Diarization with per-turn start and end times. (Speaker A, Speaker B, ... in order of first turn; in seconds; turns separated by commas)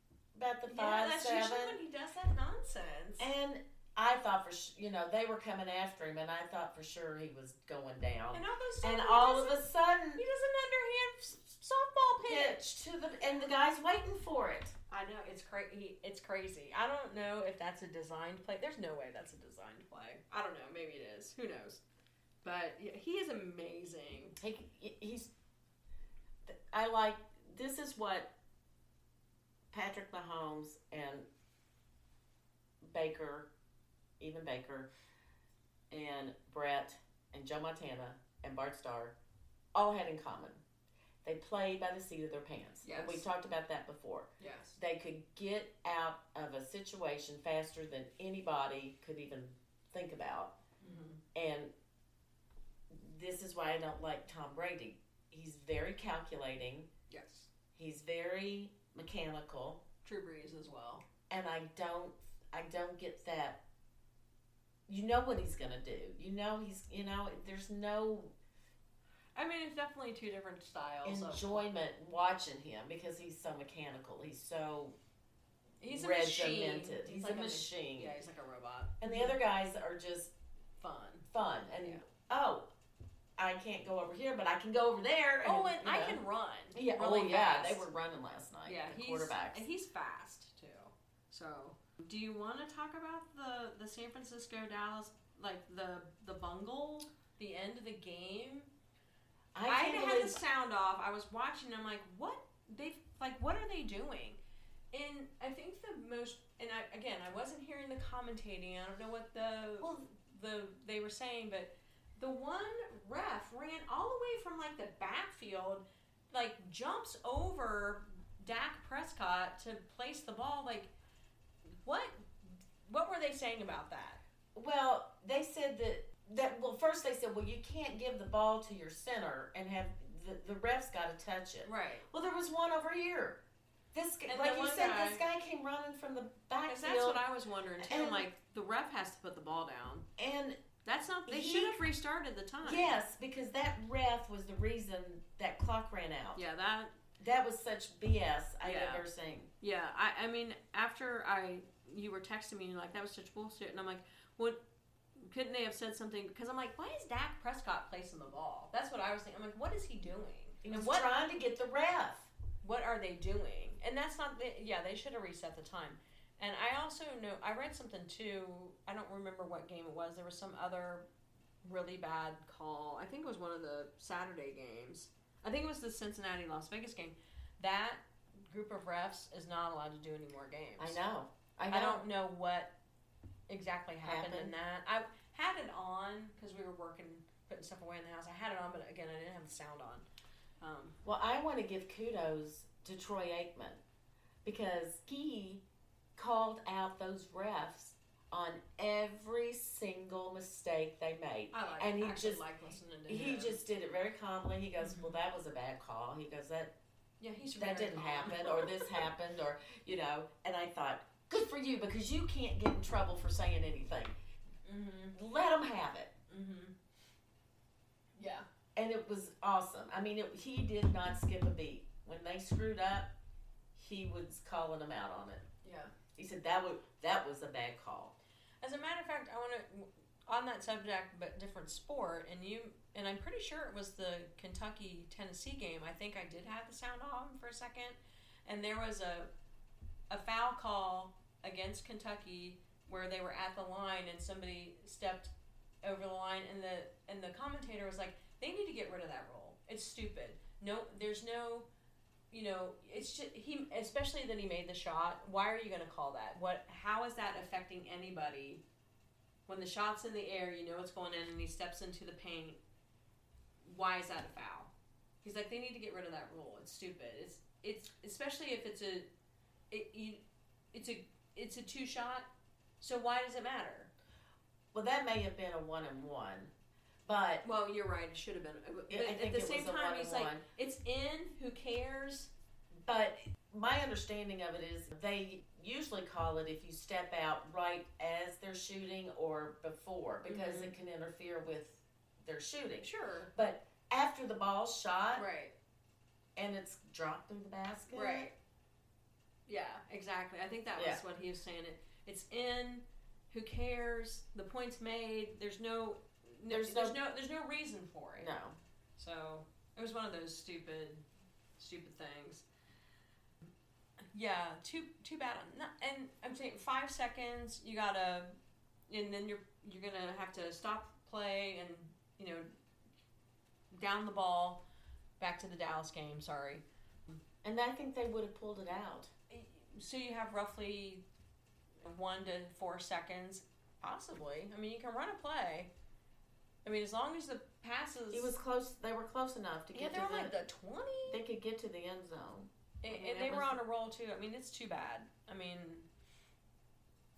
Speaker A: 0.3-1.8, Speaker B: 0.7-3.3, Speaker A: 3.2-10.2, Speaker B: 8.3-12.6, Speaker A: 12.2-14.7, Speaker B: 14.9-21.8, Speaker B: 22.4-24.4, Speaker A: 24.4-25.3, Speaker A: 26.4-28.3, Speaker A: 29.7-31.3, Speaker A: 32.8-33.5, Speaker A: 34.2-34.9, Speaker A: 35.9-39.1, Speaker A: 39.7-40.6, Speaker A: 41.2-50.6, Speaker B: 42.8-43.2, Speaker B: 44.4-44.8, Speaker B: 50.8-51.2, Speaker A: 51.3-51.7, Speaker A: 52.9-56.9, Speaker B: 57.1-57.5, Speaker A: 57.7-59.8, Speaker B: 60.0-61.0, Speaker A: 61.3-63.6, Speaker A: 64.9-68.3, Speaker B: 69.3-71.7, Speaker A: 71.0-75.0, Speaker B: 75.8-79.4, Speaker A: 75.9-78.1, Speaker A: 79.0-80.3, Speaker B: 80.8-81.3, Speaker A: 81.3-82.7, Speaker A: 83.4-86.2, Speaker B: 85.4-87.9, Speaker A: 86.7-89.6, Speaker B: 88.6-98.7, Speaker A: 99.5-100.4, Speaker B: 99.7-104.4, Speaker B: 104.9-120.9, Speaker B: 121.8-124.2, Speaker A: 124.5-133.4, Speaker B: 131.6-132.1, Speaker A: 133.9-137.2, Speaker B: 134.2-135.2, Speaker B: 136.7-140.1, Speaker A: 137.8-138.3, Speaker A: 140.2-140.6, Speaker B: 140.8-143.0, Speaker A: 141.2-141.8, Speaker A: 142.6-146.4, Speaker B: 146.3-147.0, Speaker A: 147.2-149.5, Speaker B: 148.6-149.1, Speaker B: 149.6-154.6, Speaker B: 155.2-161.1, Speaker A: 160.6-162.3, Speaker B: 162.6-171.1, Speaker B: 171.6-181.0, Speaker A: 180.8-182.0, Speaker B: 181.7-182.8, Speaker B: 183.5-190.0, Speaker A: 184.0-184.5, Speaker B: 190.6-191.0, Speaker A: 191.0-193.8, Speaker A: 194.4-195.6, Speaker A: 196.2-202.4, Speaker B: 201.5-203.6, Speaker A: 203.1-206.8, Speaker B: 204.8-205.2, Speaker B: 207.2-209.0, Speaker A: 207.6-214.1, Speaker B: 214.6-215.2, Speaker A: 215.1-216.1, Speaker B: 216.3-216.7, Speaker B: 218.2-218.4, Speaker A: 218.7-223.1, Speaker A: 223.7-225.5, Speaker B: 225.6-225.9, Speaker A: 226.2-228.2, Speaker B: 228.6-239.3, Speaker B: 240.1-245.3, Speaker B: 245.8-251.7, Speaker B: 252.3-258.6, Speaker B: 259.5-262.6, Speaker B: 263.6-264.7, Speaker B: 265.2-269.1, Speaker B: 269.7-273.9, Speaker A: 274.7-276.5, Speaker A: 277.1-277.4, Speaker B: 277.4-282.3, Speaker A: 278.9-280.4, Speaker A: 282.8-295.2, Speaker B: 290.2-290.7, Speaker B: 292.8-293.3, Speaker B: 295.1-295.5, Speaker A: 296.4-298.3, Speaker B: 297.9-298.3, Speaker B: 299.5-308.3, Speaker A: 300.7-301.0, Speaker A: 306.5-307.0, Speaker A: 308.2-308.6, Speaker B: 309.0-311.1, Speaker B: 311.6-312.4, Speaker B: 314.1-318.3, Speaker B: 318.9-322.5, Speaker B: 323.7-324.6, Speaker B: 325.2-326.6, Speaker A: 327.4-329.1, Speaker B: 329.3-331.0, Speaker B: 331.8-335.7, Speaker B: 336.6-338.4, Speaker A: 338.1-340.4, Speaker B: 339.7-341.2, Speaker A: 341.1-343.6, Speaker B: 342.8-345.9